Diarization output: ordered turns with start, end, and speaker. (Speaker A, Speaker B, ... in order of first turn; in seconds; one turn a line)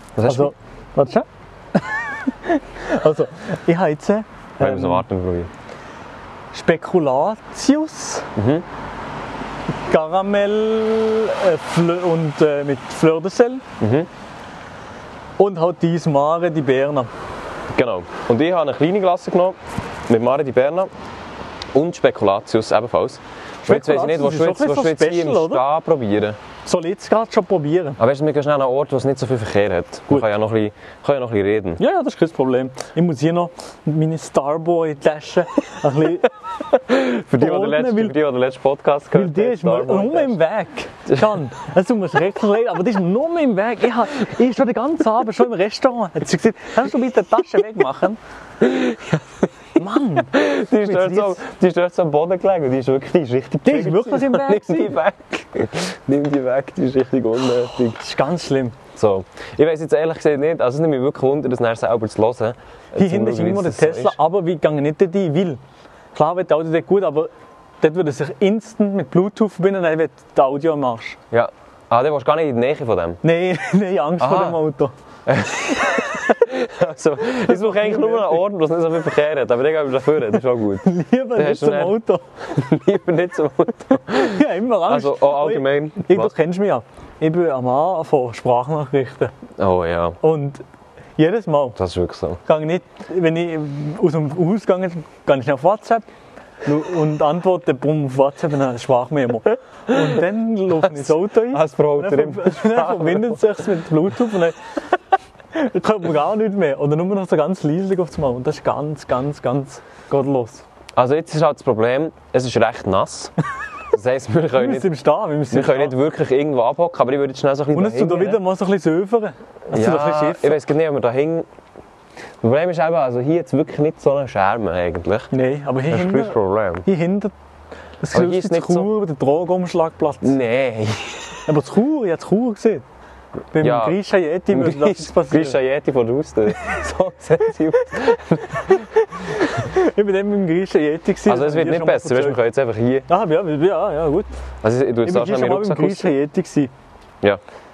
Speaker A: 0.2-0.5
Speaker B: 0.2-5.0
Speaker A: 4.6-5.5
Speaker B: 6.5-8.3
Speaker A: 8.4-8.7
Speaker B: 9.9-13.6
Speaker A: 13.8-14.1
Speaker B: 15.4-17.1
Speaker A: 17.7-20.9
Speaker A: 21.7-26.4
Speaker B: 23.7-25.6
Speaker B: 26.7-28.0
Speaker A: 28.0-31.8
Speaker B: 31.8-36.3
Speaker A: 36.7-40.4
Speaker B: 37.3-38.2
Speaker B: 39.1-48.2
Speaker A: 48.6-49.3
Speaker B: 49.8-51.4
Speaker A: 50.3-58.0
Speaker B: 53.6-55.0
Speaker B: 58.0-58.8
Speaker A: 59.0-64.2
Speaker B: 63.0-65.6
Speaker B: 66.1-71.2
Speaker A: 71.3-73.2
Speaker B: 73.2-74.9
Speaker A: 74.2-74.6
Speaker A: 75.3-86.3
Speaker B: 77.4-78.4
Speaker B: 80.8-82.3
Speaker B: 84.1-89.3
Speaker A: 89.6-90.2
Speaker B: 90.2-90.6
Speaker B: 91.2-91.8
Speaker A: 91.8-92.4
Speaker B: 92.5-96.1
Speaker B: 96.6-104.6
Speaker A: 100.8-103.4
Speaker B: 105.5-110.6
Speaker A: 111.0-113.3
Speaker A: 113.9-114.9
Speaker B: 114.5-116.0
Speaker A: 115.5-118.4
Speaker B: 117.7-120.6
Speaker A: 119.7-121.5
Speaker A: 122.4-125.3
Speaker B: 125.3-127.3
Speaker A: 125.9-126.8
Speaker B: 128.0-130.4
Speaker A: 128.1-128.9
Speaker A: 130.2-131.4
Speaker B: 131.5-132.8
Speaker B: 133.5-135.6
Speaker A: 133.6-138.8
Speaker B: 138.6-142.4
Speaker A: 141.2-143.1
Speaker B: 143.1-144.3
Speaker A: 144.6-146.1
Speaker B: 145.0-146.7